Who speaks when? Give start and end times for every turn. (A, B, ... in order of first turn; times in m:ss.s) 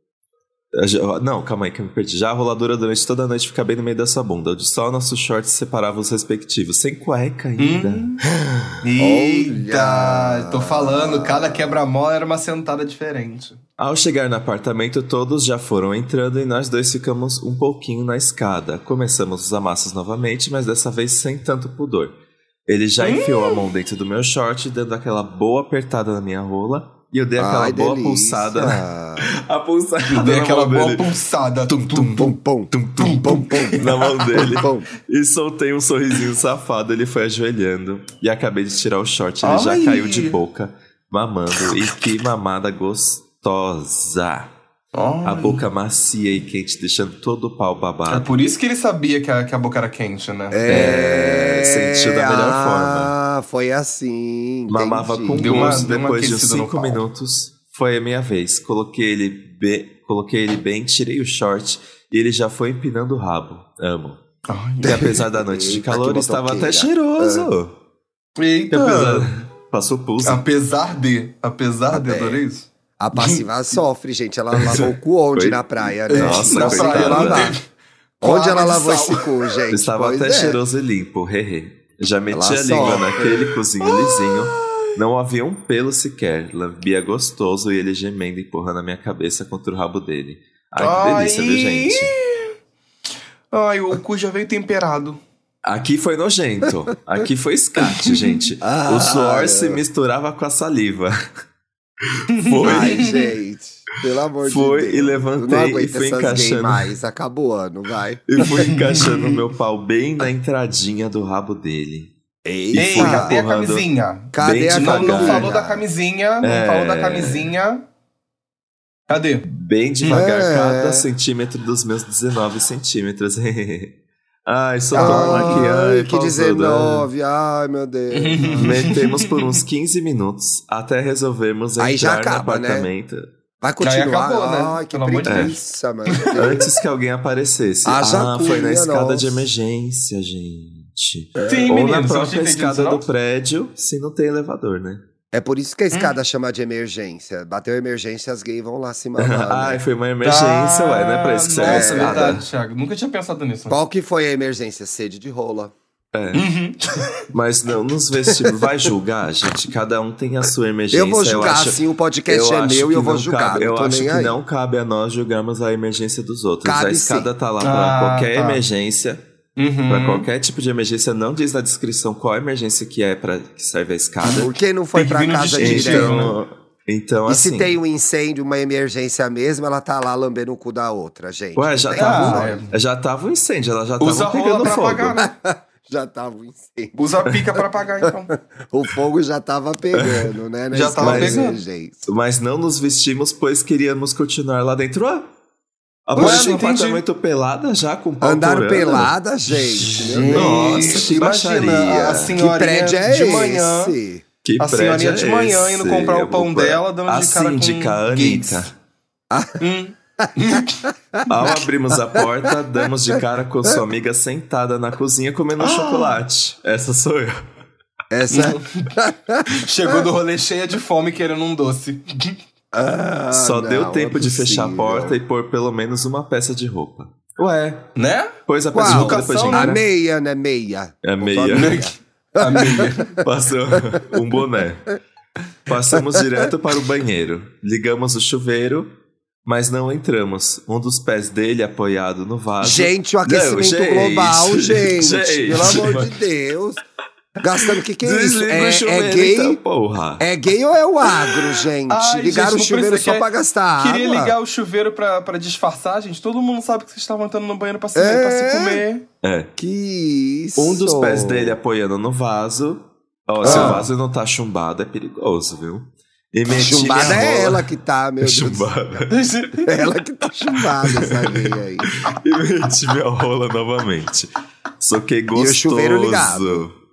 0:00.7-0:08.8 A
0:07.6-0:08.2 B
0:08.8-0:13.6 B
0:09.0-0:11.8 C
0:13.8-0:22.1 A
0:22.7-0:31.1 A
0:23.0-0:23.6 B
0:27.4-0:29.3 C
0:30.1-0:32.3 B
0:31.7-0:44.5 A
0:32.2-0:34.9 C
0:33.0-0:34.5 B
0:39.4-0:40.4 B
0:44.9-0:45.6 B
0:45.2-0:48.3 A
0:48.1-0:50.7 B
0:50.5-0:55.7 C
0:50.7-0:53.1 A
0:54.7-1:04.2 A
0:55.4-0:57.0 B
1:04.5-1:05.2 B
1:04.8-1:07.7 A
1:04.9-1:07.5 C
1:08.4-1:09.4 B
1:08.7-1:10.4 A
1:10.2-1:13.4 B
1:11.9-1:12.4 C
1:13.0-1:17.6 C
1:14.7-1:17.6 A
1:16.1-1:17.6 B
1:18.2-1:19.4 B
1:18.2-1:20.6 C
1:19.7-1:32.2 A
1:22.3-1:23.4 C
1:23.8-1:24.8 B
1:30.8-1:32.5 B
1:33.5-1:35.2 B
1:35.6-1:41.2 A
1:38.0-1:38.3 B
1:38.6-1:39.8 C
1:42.2-1:43.1 A
1:42.3-1:43.2 B
1:42.6-1:48.7 C
1:44.4-1:46.9 A
1:48.3-1:52.1 A
1:48.4-1:49.4 B
1:52.4-1:53.4 C
1:52.7-1:53.9 A
1:52.8-1:57.8 B
1:54.3-1:55.8 C
1:54.4-1:55.5 A
1:56.4-1:57.5 A
1:59.1-1:59.5 B
1:59.5-2:07.1 A
2:00.1-2:01.1 C
2:04.9-2:05.7 B
2:04.9-2:08.8 C
2:08.1-2:09.6 B
2:08.6-2:13.3 A
2:11.8-2:12.9 C
2:13.6-2:16.7 C
2:13.8-2:15.6 B
2:15.2-2:15.6 A
2:16.1-2:16.6 B
2:16.4-2:25.0 A
2:17.8-2:19.5 C
2:21.4-2:23.0 B
2:25.3-2:29.8 C
2:29.2-2:32.5 A
2:30.2-2:33.8 B
2:31.6-2:32.4 C
2:33.7-2:35.7 C
2:36.1-2:36.4 A
2:36.3-2:37.1 B
2:37.3-2:49.2 A
2:38.3-2:38.6 C
2:40.9-2:44.4 C
2:46.6-2:47.3 C
2:47.6-2:48.6 B
2:49.6-2:50.3 B
2:49.9-2:54.5 A
2:54.2-2:56.4 B
2:54.3-2:56.4 C
2:55.6-2:57.7 A
2:57.3-3:02.6 C
3:01.6-3:05.3 A
3:02.0-3:02.7 B
3:04.0-3:05.3 B
3:05.2-3:07.0 C
3:07.0-3:08.3 B
3:08.0-3:12.1 C
3:10.0-3:10.3 A
3:10.7-3:11.6 B
3:11.0-3:11.5 A
3:12.1-3:15.3 A
3:16.1-3:19.1 A
3:16.2-3:17.0 B
3:16.2-3:16.5 C
3:18.2-3:21.1 C
3:19.5-3:24.0 B
3:20.3-3:22.4 A
3:22.4-3:24.2 C
3:24.4-3:28.7 A
3:24.6-3:28.7 B
3:29.3-3:29.6 C
3:29.6-3:31.6 B
3:31.2-3:31.6 C
3:31.3-3:37.4 A
3:32.2-3:32.6 C
3:35.6-3:36.2 B
3:38.1-3:40.0 C
3:38.3-3:39.0 B
3:39.5-3:42.4 B
3:42.7-3:45.2 C
3:43.3-3:47.9 A
3:48.0-3:49.7 B
3:48.5-3:49.8 A
3:48.7-3:53.2 C
3:51.0-3:51.8 A
3:51.5-3:53.2 B
3:53.2-3:55.0 A
3:55.7-3:58.9 A
3:56.0-3:56.5 C
3:59.4-4:06.2 A
4:02.6-4:06.8 C
4:07.4-4:09.6 C
4:08.0-4:10.2 A
4:10.2-4:14.4 C
4:11.9-4:19.0 B
4:18.0-4:18.8 C
4:19.2-4:19.5 A
4:19.6-4:21.6 C
4:20.6-4:27.7 A
4:23.4-4:23.8 C
4:23.4-4:23.9 B
4:26.5-4:28.7 C
4:26.5-4:27.5 B
4:28.2-4:29.3 A
4:29.1-4:29.8 B
4:29.6-4:31.9 C
4:30.7-4:36.7 A
4:35.3-4:36.7 C